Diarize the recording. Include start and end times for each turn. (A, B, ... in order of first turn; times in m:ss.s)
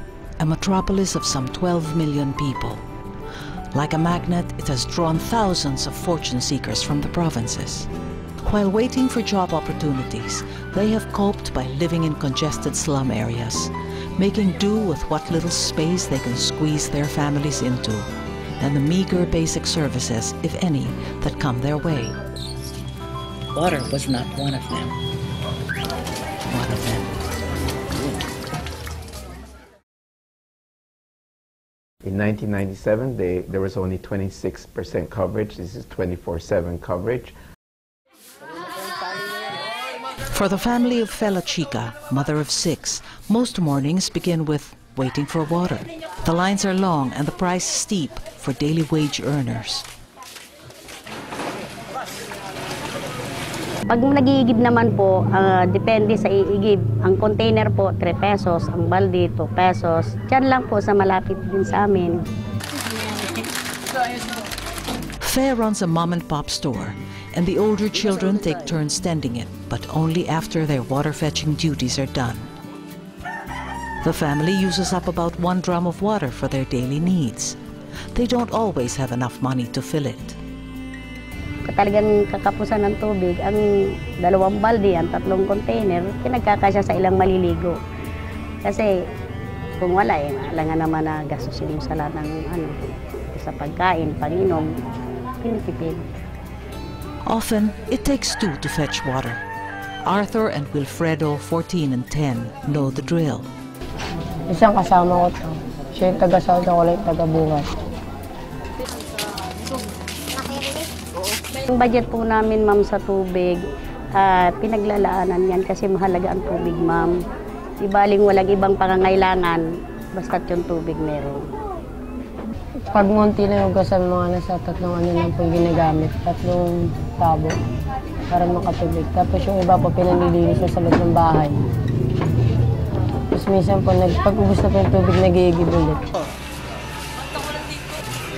0:00.4-0:02.8 A
0:03.7-0:07.9 A
0:08.4-0:18.1 A
0:18.6-0:22.2 A
0:23.5-0:25.0 A
0:26.5-0:27.1 A
0:32.0-0:37.4 B
0:40.3-0:49.9 A
0:53.9-1:02.1 C
1:05.2-1:12.5 A
1:14.0-1:17.6 A
1:18.1-1:20.4 A
1:21.7-1:23.6 C
1:24.2-1:27.7 C
1:29.8-1:32.8 C
1:33.4-1:34.6 C
1:35.4-1:36.0 C
1:37.3-1:39.4 A
1:40.0-1:43.5 A
1:44.5-1:47.7 D
1:51.7-1:53.6 C
1:54.2-1:57.1 C
1:57.8-1:59.6 C
2:00.2-2:01.4 C
2:02.9-2:07.6 D
2:08.3-2:11.6 D
2:13.3-2:16.0 D